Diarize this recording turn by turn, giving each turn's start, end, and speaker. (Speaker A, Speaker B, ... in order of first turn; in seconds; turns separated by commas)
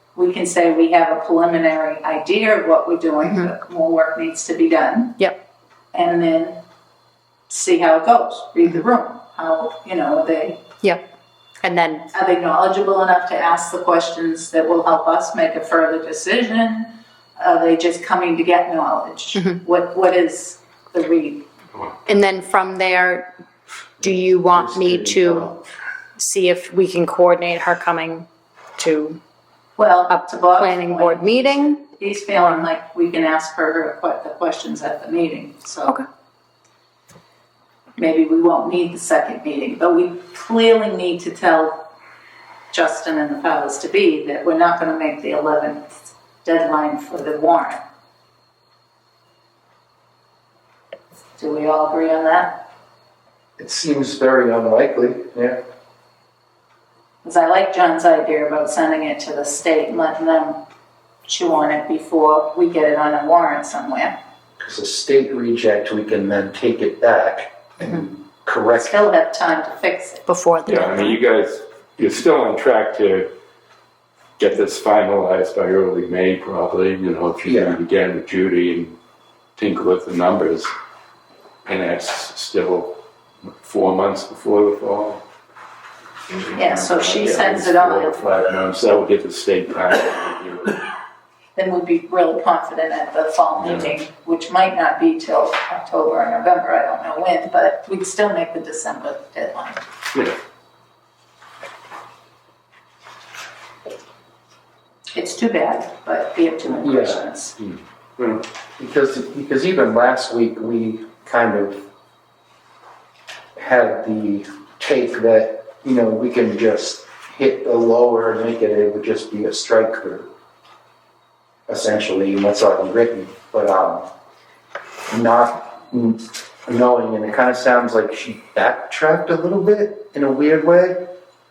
Speaker A: 0.1-5.2, Speaker B: 3.2-3.5, Speaker A: 5.9-6.6, Speaker A: 7.5-10.7, Speaker B: 11.6-12.1, Speaker A: 12.1-21.5, Speaker B: 19.4-19.6, Speaker B: 22.1-23.3, Speaker C: 24.0-25.6, Speaker B: 24.0-25.5, Speaker B: 26.2-29.2, Speaker A: 29.8-36.0, Speaker B: 30.1-32.7, Speaker A: 38.0-41.8, Speaker A: 42.7-47.8, Speaker A: 51.4-52.6, Speaker C: 53.6-55.6, Speaker A: 57.2-60.6, Speaker A: 61.2-64.2, Speaker C: 64.6-69.0, Speaker A: 68.8-70.3, Speaker B: 70.3-71.2, Speaker D: 70.7-73.3, Speaker D: 74.4-79.0, Speaker C: 77.5-77.8, Speaker D: 79.6-80.7, Speaker D: 81.7-85.2, Speaker D: 86.3-90.8, Speaker A: 86.5-88.3, Speaker A: 91.6-99.8, Speaker D: 93.6-94.0, Speaker A: 105.2-107.5, Speaker C: 106.7-107.2, Speaker D: 107.6-108.4, Speaker C: 108.8-111.8, Speaker C: 113.6-120.3, Speaker C: 121.7-124.1, Speaker C: 125.1-131.1